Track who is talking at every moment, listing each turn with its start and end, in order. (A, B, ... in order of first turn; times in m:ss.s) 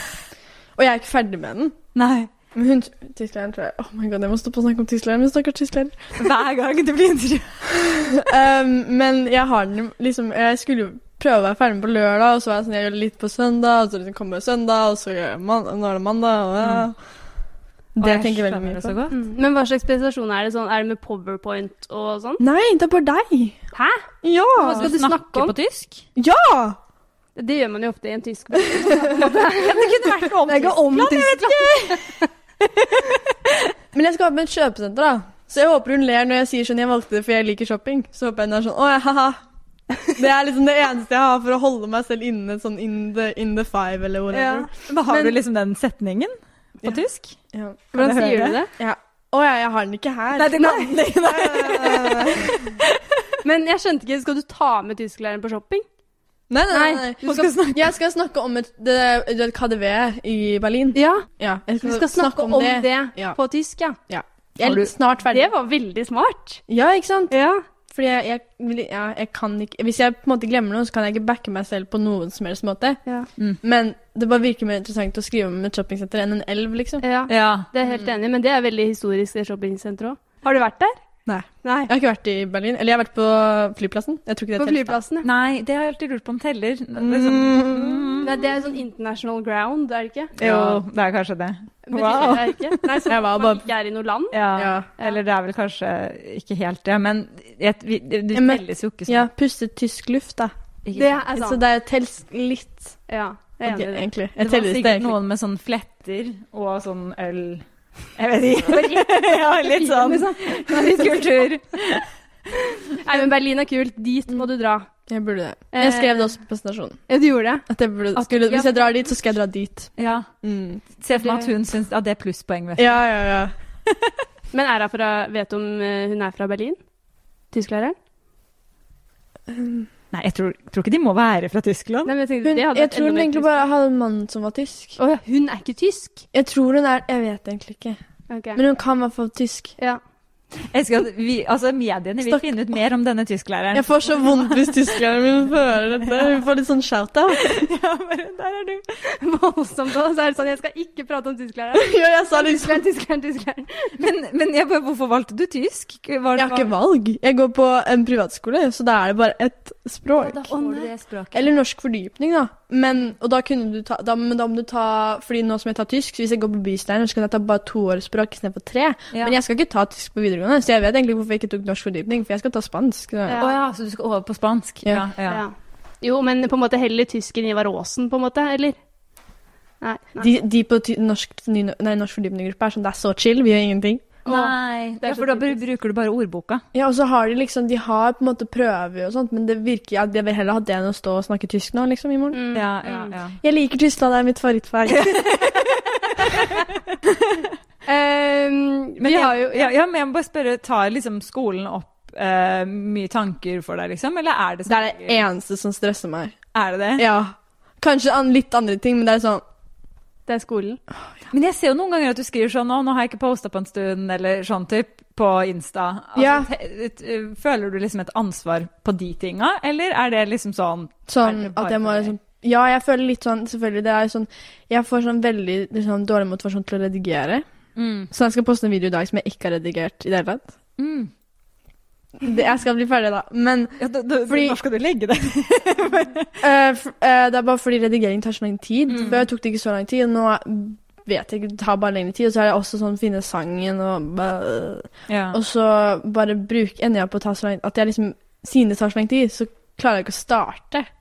0:00.8-0:01.8 A
0:01.9-0:02.3 B
0:02.5-0:06.0 A
0:06.2-0:07.7 B
0:07.8-0:17.0 A
0:16.6-0:16.9 B
0:18.0-0:18.9 A
0:18.0-0:19.2 B
0:19.1-0:22.4 C
0:22.4-0:23.6 A
0:23.7-0:25.6 C
0:24.2-0:24.9 A
0:24.7-0:26.0 B
0:26.2-0:26.8 A
0:27.4-0:32.2 C
0:28.8-0:29.2 A
0:29.2-0:32.2 B
0:33.9-0:39.4 A
0:40.1-0:45.4 A
0:44.3-0:47.4 B
0:47.5-0:47.9 A
0:47.9-0:48.7 C
0:47.9-0:48.6 B
0:48.8-0:52.7 A
0:50.4-0:52.8 B
0:50.6-0:51.0 C
0:53.4-0:55.8 C
0:56.5-1:03.4 A
0:56.7-0:57.4 C
0:57.2-0:57.9 B
1:00.9-1:01.3 C
1:01.8-1:04.0 C
1:04.1-1:05.5 A
1:04.6-1:04.9 B
1:05.3-1:06.6 C
1:06.7-1:07.3 A
1:07.3-1:07.6 C
1:07.9-1:13.0 A
1:13.6-1:17.0 A
1:17.0-1:21.0 C
1:17.3-1:17.7 B
1:21.3-1:25.0 A
1:21.6-1:21.9 C
1:24.6-1:25.3 C
1:25.2-1:28.4 B
1:27.0-1:28.2 A
1:28.2-1:30.4 C
1:30.4-1:32.8 B
1:30.4-1:30.8 A
1:31.9-1:34.4 C
1:33.0-1:33.6 A
1:34.3-1:39.3 B
1:34.6-1:34.9 A
1:38.3-1:40.5 A
1:40.8-1:41.2 B
1:40.9-1:41.6 C
1:41.3-1:43.0 A
1:43.1-1:44.1 C
1:43.6-1:45.1 A
1:44.4-1:52.1 B
1:49.0-1:51.5 C
1:52.5-1:54.9 C
1:55.1-1:57.0 A
1:55.7-1:56.2 C
1:57.1-1:58.9 C
1:57.7-2:00.8 A
2:00.0-2:00.3 B
2:01.0-2:03.0 B
2:01.1-2:01.5 C
2:02.8-2:03.5 A
2:04.5-2:06.8 C
2:07.5-2:08.0 C
2:09.5-2:09.9 A
2:10.1-2:12.1 B
2:12.0-2:13.7 C
2:12.4-2:15.0 A
2:15.0-2:16.2 C
2:16.3-2:18.0 A
2:18.3-2:18.6 C
2:18.5-2:19.7 A
2:20.7-2:24.9 B
2:22.2-2:22.5 A
2:23.7-2:27.6 A
2:27.3-2:28.8 B
2:29.1-2:33.9 C
2:31.7-2:32.8 A
2:34.0-2:36.7 B
2:36.4-2:40.5 A
2:40.2-2:41.5 B
2:40.5-2:40.9 C
2:41.3-2:53.4 A
2:53.3-2:53.5 C
2:53.4-2:55.4 B
2:55.3-2:58.8 C
2:59.8-3:00.3 C
3:00.2-3:04.1 A
3:04.2-3:05.6 C
3:04.3-3:06.6 B
3:06.7-3:12.4 A
3:12.3-3:13.1 C
3:12.5-3:13.4 B
3:13.4-3:15.6 A
3:14.9-3:17.5 B
3:17.8-3:19.7 C
3:19.0-3:25.2 B
3:24.7-3:26.4 A
3:26.5-3:27.0 B
3:27.0-3:29.4 A
3:30.3-3:30.8 C
3:31.3-3:42.1 B
3:36.2-3:36.5 A
3:41.1-3:47.4 A
3:47.8-3:48.1 B
3:48.1-3:50.5 A
3:50.8-3:51.1 B
3:52.2-3:54.6 A
3:53.8-3:56.4 B
3:56.4-4:10.9 A
3:58.9-3:59.2 B
4:05.1-4:05.4 B